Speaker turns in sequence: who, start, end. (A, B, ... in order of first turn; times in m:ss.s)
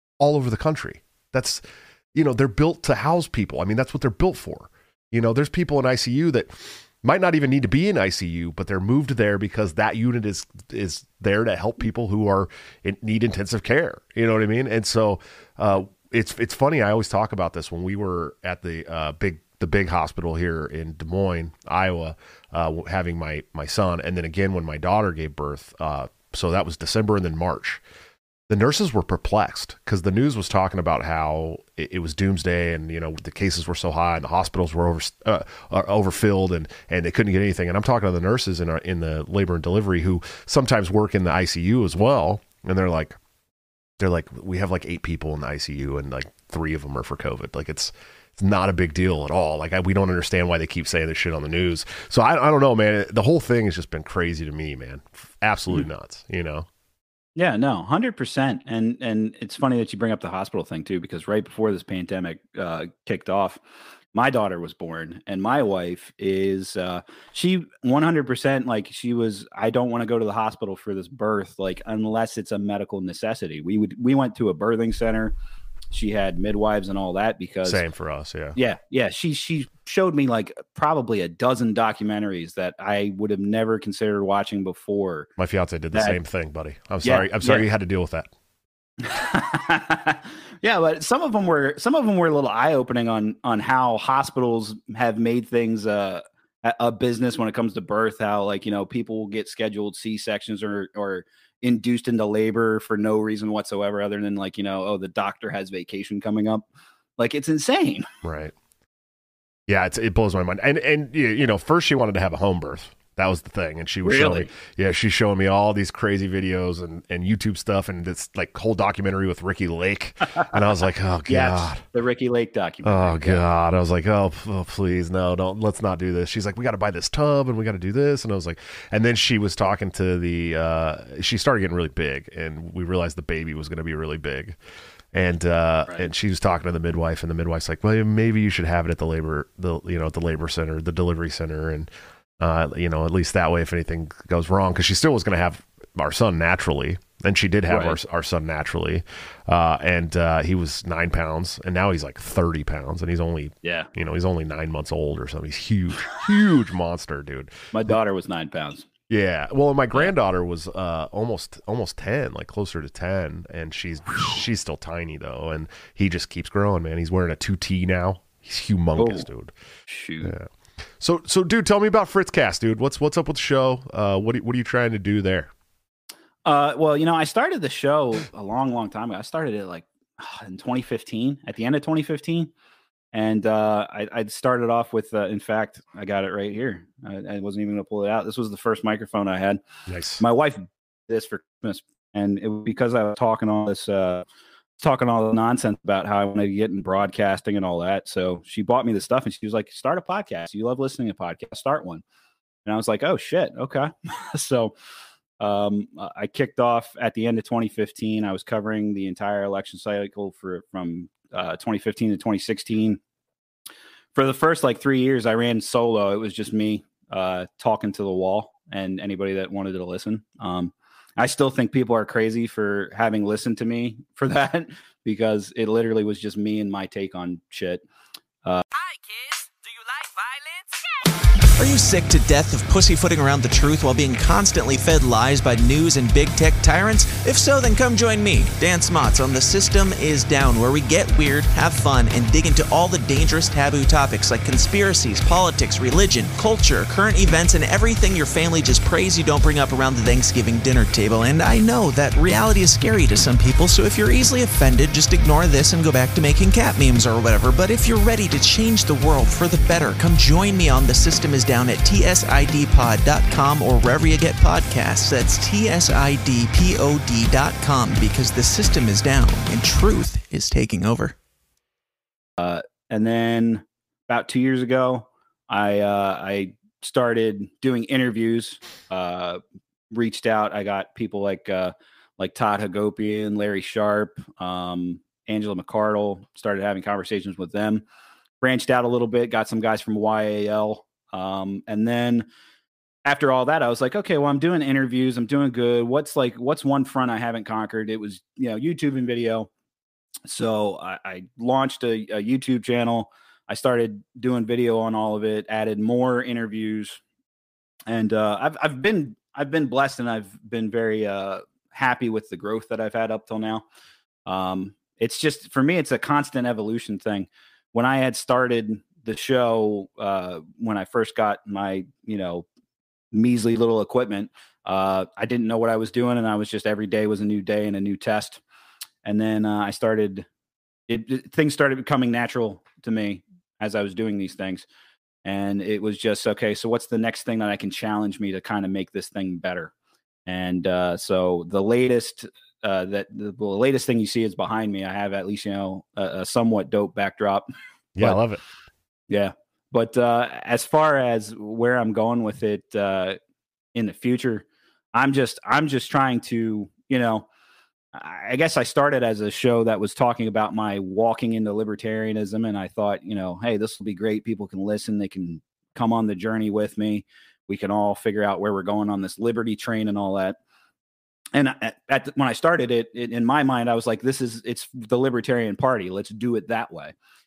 0:00.2-0:01.6 A
0:02.1-0:27.8 A
0:28.5-0:43.2 A
0:44.0-0:56.7 A
0:57.4-1:03.6 B
1:04.1-1:15.3 B
1:15.9-1:17.8 B
1:17.6-1:18.6 A
1:18.5-1:25.3 B
1:25.4-1:28.3 A
1:27.0-1:27.6 B
1:29.0-1:46.6 B
1:47.2-1:48.1 B
1:48.2-1:48.5 A
1:49.7-2:01.8 A
1:54.0-1:54.5 B
2:01.3-2:03.4 B
2:02.8-2:14.6 A
2:15.1-2:21.9 A
2:22.4-2:38.0 A
2:27.7-2:28.0 B
2:33.6-2:33.9 B
2:37.7-2:38.9 B
2:39.1-2:49.5 A
2:49.0-2:49.2 B
2:49.9-2:50.3 B
2:51.0-2:55.5 A
2:56.4-3:02.5 B
3:03.1-3:09.6 B
3:09.9-3:10.2 A
3:10.2-3:14.2 B
3:14.8-3:22.0 B
3:22.6-3:24.7 B
3:25.4-3:33.0 B
3:34.1-3:47.8 B
3:51.6-4:31.1 C
4:32.4-4:39.4 B
4:39.9-4:47.8 B
4:48.4-4:52.2 B
4:53.0-4:59.5 B
5:00.3-5:07.0 B
5:07.9-5:13.6 B
5:14.3-5:22.4 B
5:23.1-5:28.4 B
5:29.0-5:30.3 B
5:30.9-5:34.6 B
5:35.2-5:39.7 B
5:40.2-5:47.5 B
5:48.0-5:48.4 A
5:49.1-5:53.2 B
5:53.7-5:57.2 B
5:57.9-6:10.4 B
6:11.3-6:16.9 B